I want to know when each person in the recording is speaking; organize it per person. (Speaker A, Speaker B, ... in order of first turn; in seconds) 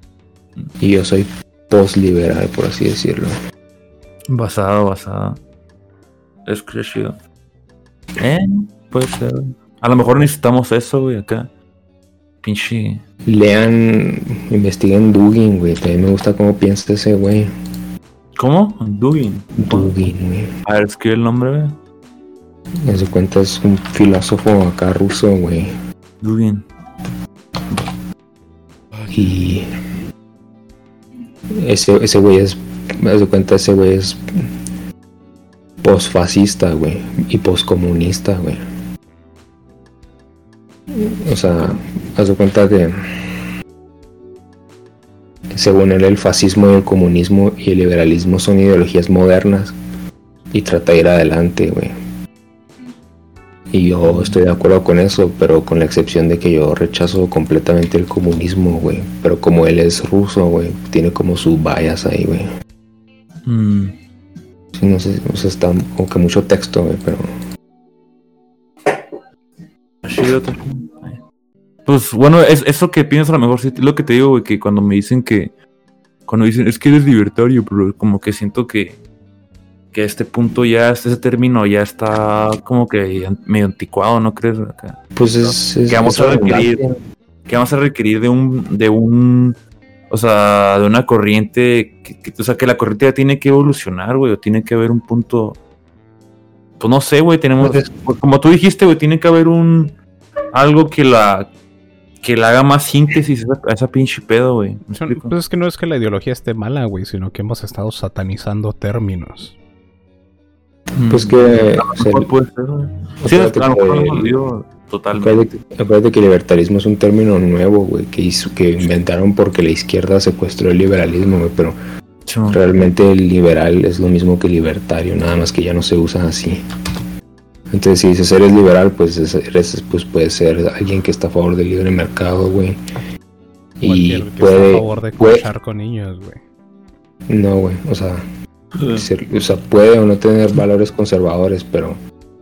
Speaker A: 0.8-3.3, 13.3-17.5, 19.6-20.5, 22.8-25.7, 29.1-29.6, 31.6-34.7, 35.8-38.6, 40.9-43.4, 45.5-49.8, 50.5-51.9, 53.7-62.5, 64.8-67.3, 85.2-87.0, 97.6-97.9, 111.1-112.3, 113.2-114.3, 115.2-121.8, 122.5-126.6, 127.7-132.8, 133.8-135.5, 137.3-138.2, 138.9-142.0
Speaker B: 4.3-5.4, 6.5-7.2, 8.2-11.5, 12.4-13.0, 18.4-19.9, 20.7-21.8, 26.2-26.6, 41.5-41.8, 54.0-54.4, 63.5-64.0, 70.0-71.2, 71.9-75.5, 76.3-79.0, 79.9-86.8, 87.5-89.6, 90.1-95.6, 96.8-100.0, 100.5-101.5, 102.2-105.3, 111.0-115.5, 122.3-122.6, 138.8-139.1
Speaker C: 104.9-109.5, 133.8-136.4